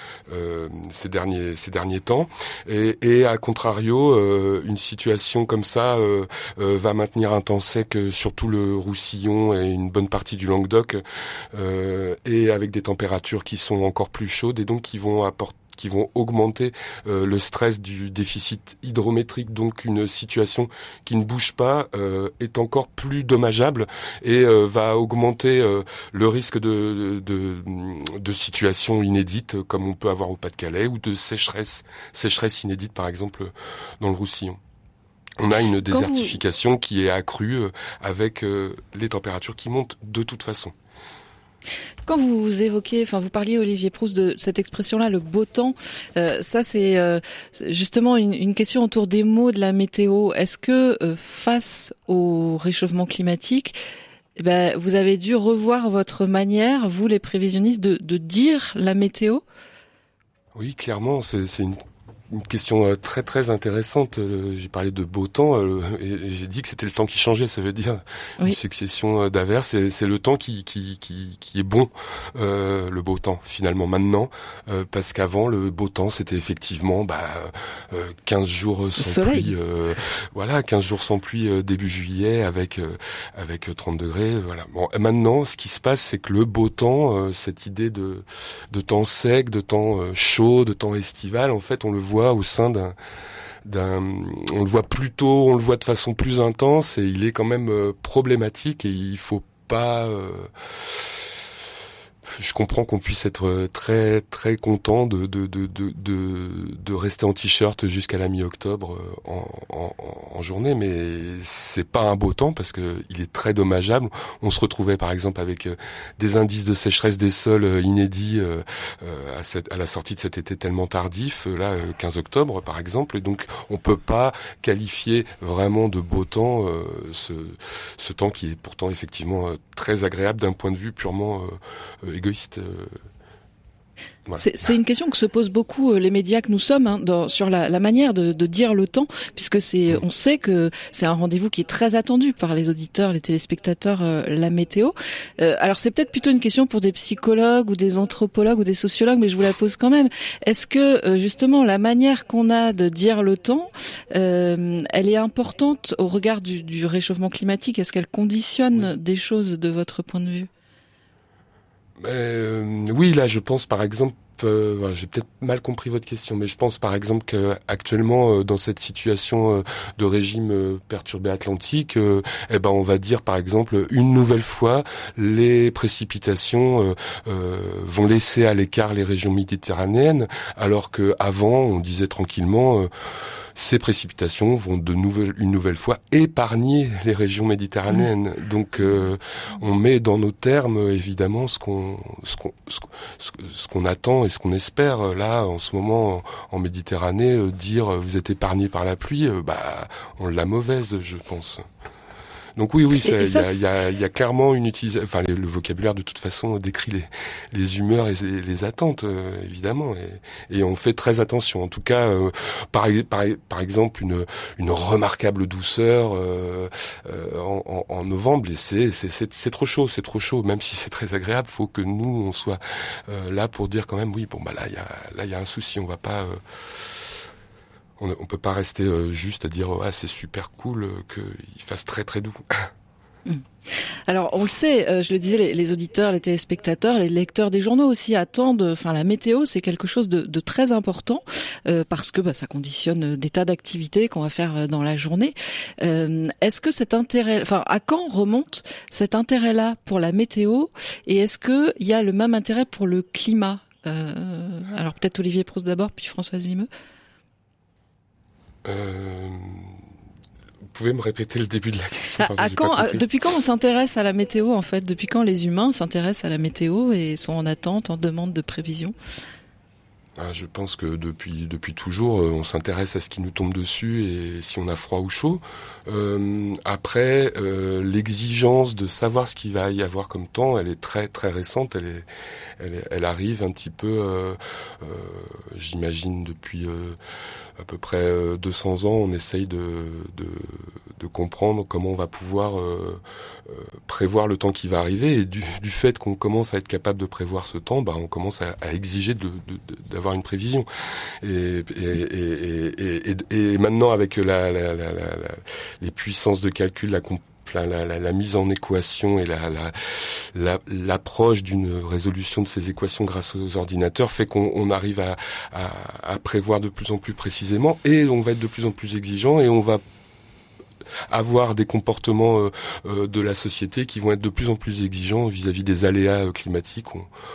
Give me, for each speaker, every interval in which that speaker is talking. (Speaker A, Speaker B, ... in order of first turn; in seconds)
Speaker A: 0.3-34.6, 35.4-40.7, 60.5-61.8, 62.3-92.9, 93.6-101.3, 102.2-133.0, 162.0-182.9, 183.5-201.6, 202.6-227.1, 228.0-232.7, 258.6-259.7, 260.7-263.1, 270.1-282.1, 282.6-287.0, 287.6-300.7, 301.2-319.8, 321.1-327.1
Speaker B: 35.9-36.4, 42.1-53.8, 54.4-59.4, 79.0-79.5, 134.4-160.5, 203.0-203.6, 234.1-256.7, 262.2-268.9